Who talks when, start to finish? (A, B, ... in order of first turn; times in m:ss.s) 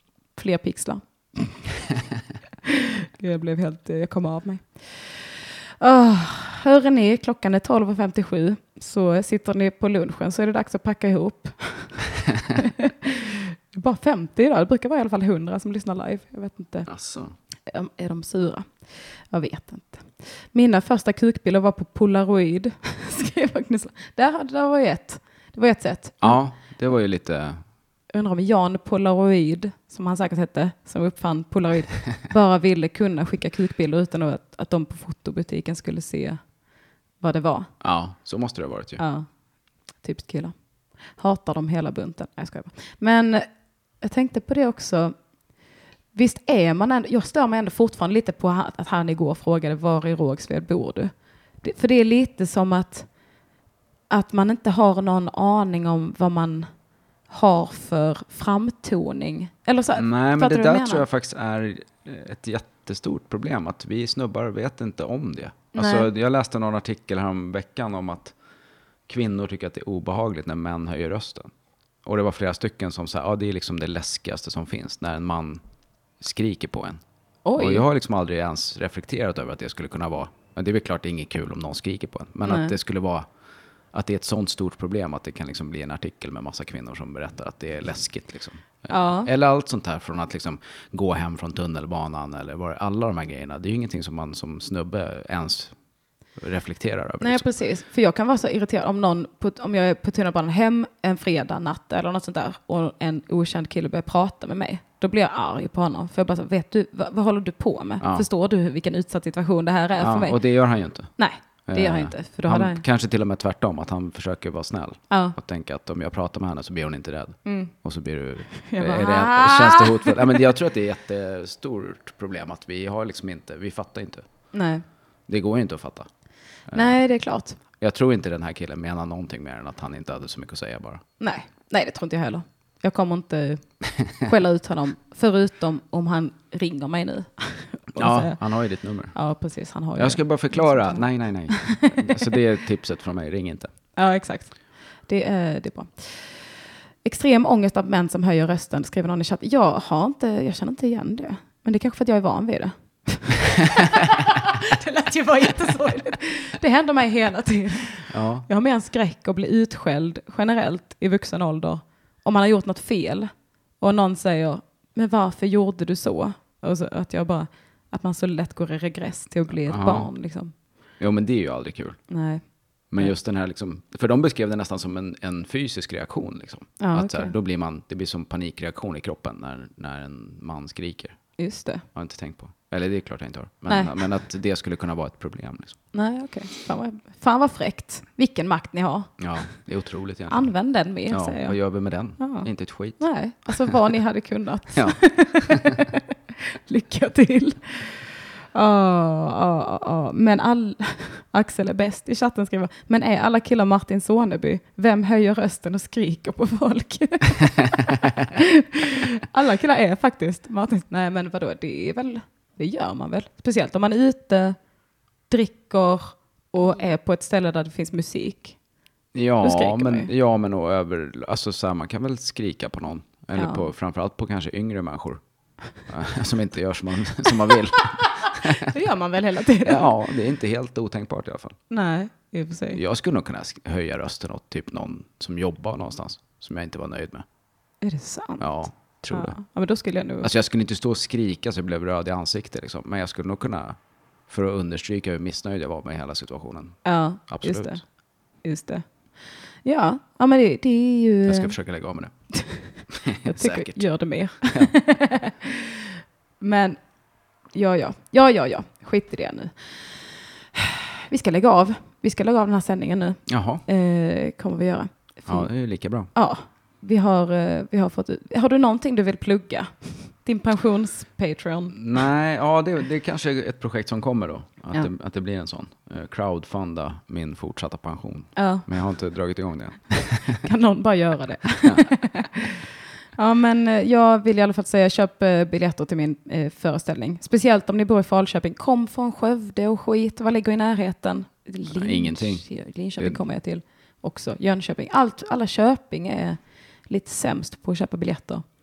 0:00.4-0:01.6 A
0:02.6-0:12.0 A
0:12.5-0:16.9 A
0:16.9-0:17.3 B
0:17.7-0:18.7 A
0:19.3-0:26.4 A
0:26.2-0:27.6 B
0:28.1-0:36.4 A
0:37.2-0:37.7 A
0:37.8-0:39.0 B
0:39.0-0:39.3 A
0:40.0-0:40.6 A
0:41.1-0:43.5 A
0:44.0-0:45.2 A
0:46.1-0:53.1 A
0:54.1-0:56.7 A
0:57.3-1:01.0 A
1:00.0-1:08.4 B
1:05.7-1:06.1 A
1:09.1-1:11.5 B
1:12.0-1:15.6 B
1:16.2-1:17.0 B
1:17.4-1:17.9 A
1:17.6-1:23.3 B
1:22.5-1:22.7 A
1:23.9-1:35.7 B
1:28.9-1:29.3 A
1:36.4-1:37.4 B
1:37.2-1:50.4 A
1:48.0-1:48.3 B
1:50.0-1:51.1 B
1:51.2-1:52.8 A
1:51.7-2:04.3 B
1:55.1-1:55.4 A
1:57.4-1:57.7 A
1:58.6-2:00.4 A
2:04.5-2:04.8 A
2:05.3-2:06.1 B
2:06.7-2:07.0 B
2:06.7-2:07.6 A
2:07.8-2:11.0 B
2:11.2-2:13.6 A
2:14.2-2:18.4 A
2:18.0-2:19.2 B
2:19.1-2:22.3 A
2:20.0-2:23.7 B
2:24.0-2:24.5 A
2:25.1-2:26.3 A
2:27.0-2:50.5 A
2:38.1-2:38.5 B
2:49.6-2:50.1 B
2:51.0-2:52.0 B
2:52.1-2:52.4 A
2:52.9-3:01.2 B
2:56.8-2:57.3 A
3:01.4-3:01.8 A
3:01.9-3:05.8 B
3:03.7-3:04.0 A
3:05.9-3:09.1 A
3:09.2-3:10.5 B
3:10.3-3:11.6 A
3:11.1-3:13.0 B
3:12.2-3:34.6 A
3:14.8-3:15.8 B
3:35.3-3:38.6 A
3:39.1-3:45.2 B
3:39.4-3:40.1 A
3:43.4-3:43.7 A
3:45.9-3:48.7 B
3:48.0-3:49.9 A
3:49.6-3:51.6 B
3:51.7-3:52.8 A
3:52.7-3:57.2 B
3:57.8-4:00.3 A
3:58.4-3:59.4 B
4:00.2-4:03.8 B
4:04.3-4:07.8 B
4:06.8-4:07.8 A
4:08.4-4:08.8 A
4:09.6-4:11.5 A
4:11.3-4:12.1 B
4:12.4-4:12.7 A
4:12.9-4:13.8 B
4:13.2-4:15.8 A
4:14.5-4:14.7 B
4:16.4-4:16.8 A
4:17.5-4:20.0 A
4:20.5-4:25.5 A
4:23.3-4:23.6 B
4:25.3-4:26.1 B
4:26.2-4:31.8 A
4:31.7-4:40.4 B
4:38.4-4:38.7 A
4:40.4-4:42.6 A
4:41.6-4:41.9 B
4:43.2-4:58.5 A
4:51.8-4:52.4 B